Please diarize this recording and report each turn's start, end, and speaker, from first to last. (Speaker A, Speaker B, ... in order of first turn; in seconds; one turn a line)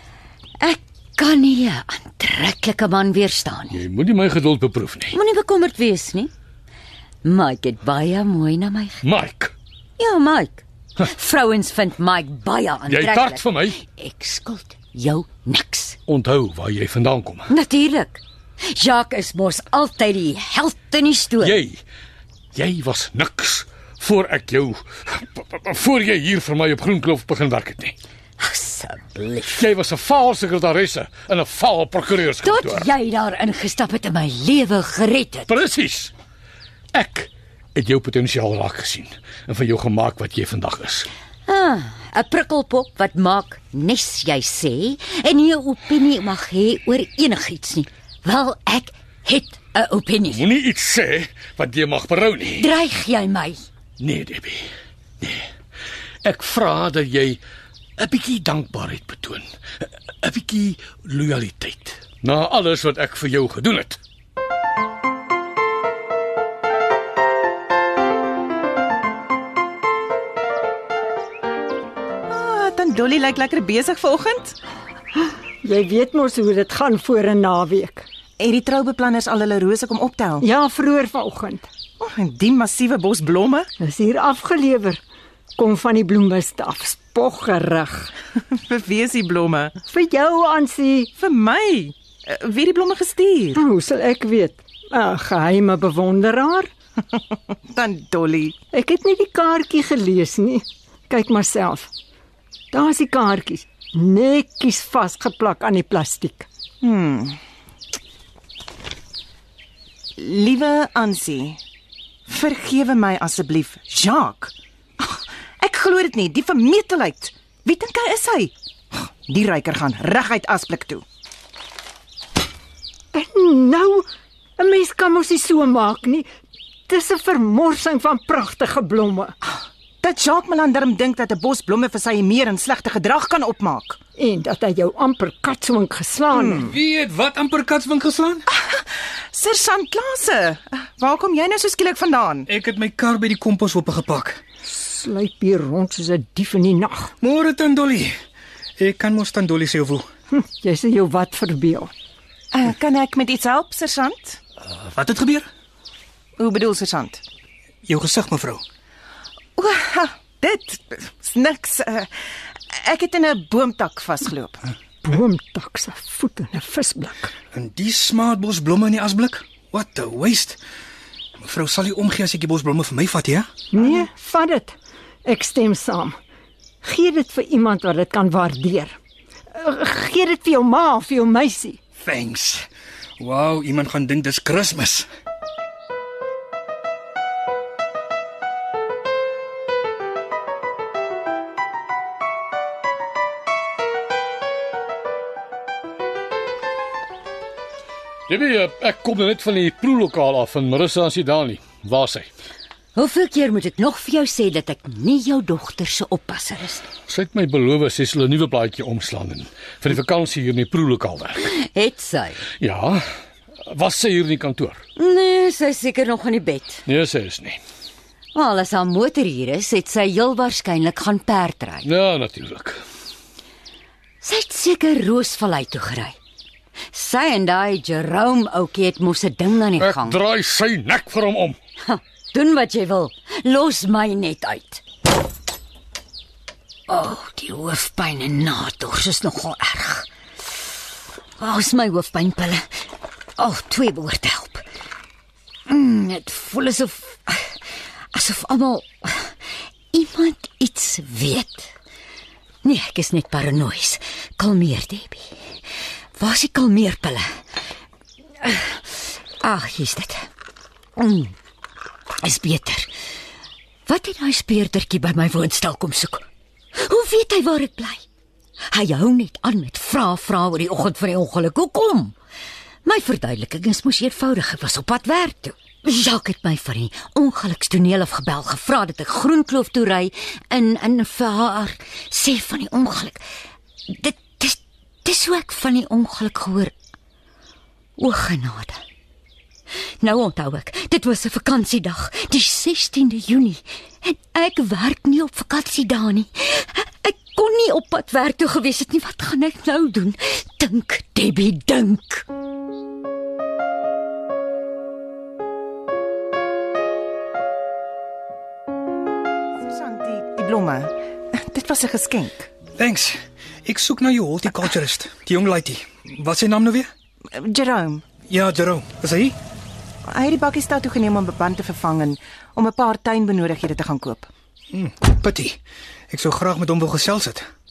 Speaker A: 0.6-3.8
Speaker B: 3.7-5.2
Speaker A: 5.1-6.3
Speaker A: 7.2-9.0
Speaker B: 9.0-9.5
Speaker A: 10.0-16.0
Speaker B: 12.9-13.8
Speaker B: 16.1-17.5
Speaker A: 17.5-21.6
Speaker B: 21.4-21.8
Speaker B: 22.6-28.0
Speaker A: 28.4-29.7
Speaker B: 29.5-32.9
Speaker A: 32.4-35.5
Speaker B: 35.5-36.1
Speaker B: 36.9-41.1
Speaker A: 41.5-50.4
Speaker B: 50.3-52.8
Speaker A: 52.6-53.6
Speaker B: 54.0-54.7
Speaker B: 55.2-55.5
Speaker B: 56.2-57.4
Speaker B: 58.0-59.5
Speaker B: 60.2-64.0
Speaker C: 72.3-74.6
Speaker D: 75.6-78.0
Speaker C: 78.4-80.5
Speaker D: 80.4-81.7
Speaker C: 82.0-83.7
Speaker D: 83.8-85.0
Speaker D: 85.6-88.1
Speaker C: 88.5-89.8
Speaker D: 89.9-91.1
Speaker C: 91.2-93.6
Speaker D: 93.5-96.7
Speaker C: 97.7-98.6
Speaker D: 98.7-101.9
Speaker D: 102.7-106.5
Speaker C: 106.8-107.4
Speaker C: 110.2-111.6
Speaker C: 112.3-121.0
Speaker D: 123.1-124.1
Speaker D: 124.6-126.3
Speaker D: 126.9-129.3
Speaker C: 130.0-134.0
Speaker D: 134.2-136.7
Speaker C: 136.3-136.7
Speaker E: 136.6-138.4
Speaker C: 138.6-142.5
Speaker E: 142.5-144.4
Speaker D: 144.7-147.1
Speaker E: 147.2-148.1
Speaker E: 148.8-150.1
Speaker D: 150.3-151.9
Speaker C: 152.5-154.4
Speaker E: 154.9-155.5
Speaker C: 156.4-157.2
Speaker E: 157.8-158.6
Speaker C: 159.6-162.1
Speaker C: 162.7-164.7
Speaker D: 165.0-167.3
Speaker E: 167.5-170.6
Speaker E: 171.4-173.5
Speaker D: 173.7-174.8
Speaker D: 175.3-176.2
Speaker D: 176.8-179.0
Speaker D: 179.6-181.8
Speaker E: 182.0-182.7
Speaker E: 183.2-185.1
Speaker B: 198.3-202.3
Speaker A: 202.9-206.9
Speaker B: 207.1-211.5
Speaker A: 211.4-212.5
Speaker B: 212.6-213.0
Speaker B: 213.7-214.8
Speaker A: 215.0-216.8
Speaker B: 216.9-217.6
Speaker A: 218.3-221.9
Speaker B: 221.9-222.8
Speaker A: 224.2-226.2
Speaker A: 226.9-230.2
Speaker B: 229.8-231.6
Speaker A: 231.8-234.8
Speaker A: 236.9-240.1
Speaker A: 241.4-242.7
Speaker A: 243.4-244.6
Speaker A: 245.7-247.5
Speaker A: 248.1-249.3
Speaker A: 249.9-251.7
Speaker A: 252.6-255.3
Speaker A: 256.2-257.3
Speaker A: 258.4-258.8
Speaker A: 259.4-260.2
Speaker A: 261.0-261.3
Speaker A: 262.2-262.9
Speaker A: 263.9-268.0
Speaker A: 268.7-272.1
Speaker A: 272.9-283.2
Speaker A: 283.9-286.7
Speaker A: 288.0-288.8
Speaker A: 290.0-302.2
Speaker C: 309.7-312.5
Speaker E: 312.8-316.9
Speaker C: 317.3-318.1
Speaker E: 318.3-319.4
Speaker C: 320.1-324.3
Speaker E: 324.7-325.6
Speaker E: 326.1-327.4